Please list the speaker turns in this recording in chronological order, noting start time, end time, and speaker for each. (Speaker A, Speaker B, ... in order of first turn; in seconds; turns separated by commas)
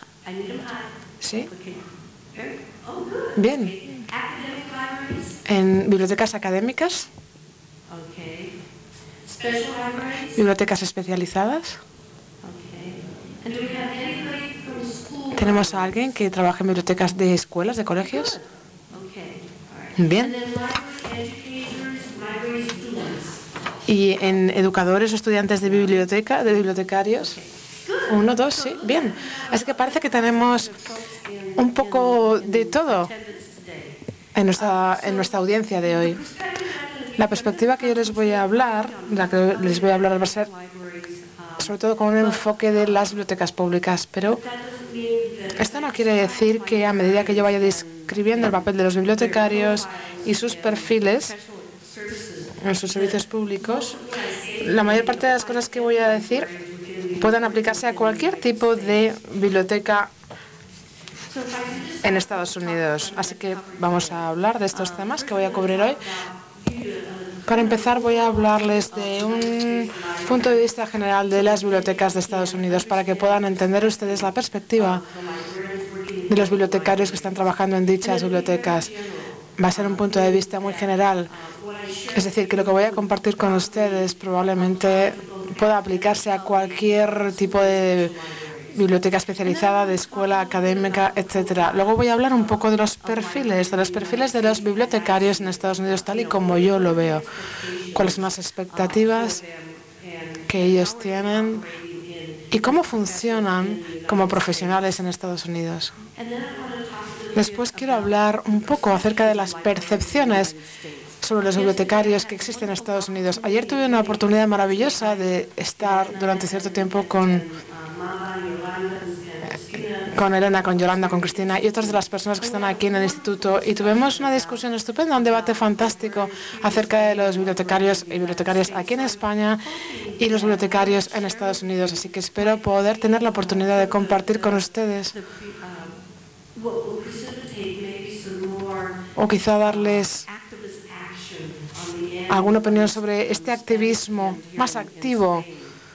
Speaker A: 0.2-5.4, Speaker B: 1.2-1.5, Speaker B: 3.4-3.7, Speaker B: 5.5-7.1, Speaker A: 7.9-8.6, Speaker A: 9.2-10.5, Speaker B: 10.3-11.8, Speaker A: 12.4-16.0, Speaker B: 15.3-18.4, Speaker A: 18.0-23.4, Speaker B: 20.0-20.3, Speaker B: 23.9-27.4, Speaker A: 27.8-34.0, Speaker B: 28.1-30.7, Speaker B: 31.6-33.1, Speaker B: 34.3-36.2, Speaker A: 34.5-43.2, Speaker B: 37.2-40.5, Speaker B: 41.6-44.4, Speaker A: 44.3-59.1, Speaker B: 45.6-51.3, Speaker B: 52.6-54.0, Speaker B: 54.6-56.5, Speaker B: 57.2-60.1, Speaker A: 61.3-105.0, Speaker B: 62.0-66.0, Speaker B: 67.5-75.0, Speaker B: 76.3-78.9, Speaker B: 79.6-81.3, Speaker B: 82.1-88.1, Speaker B: 88.7-97.2, Speaker B: 97.9-99.4, Speaker B: 100.5-101.6, Speaker B: 102.5-105.9, Speaker A: 106.1-136.0, Speaker B: 107.3-110.5, Speaker B: 111.2-117.5, Speaker B: 120.1-129.6, Speaker B: 130.2-135.1, Speaker A: 136.5-145.7, Speaker B: 139.2-140.2, Speaker B: 142.3-145.4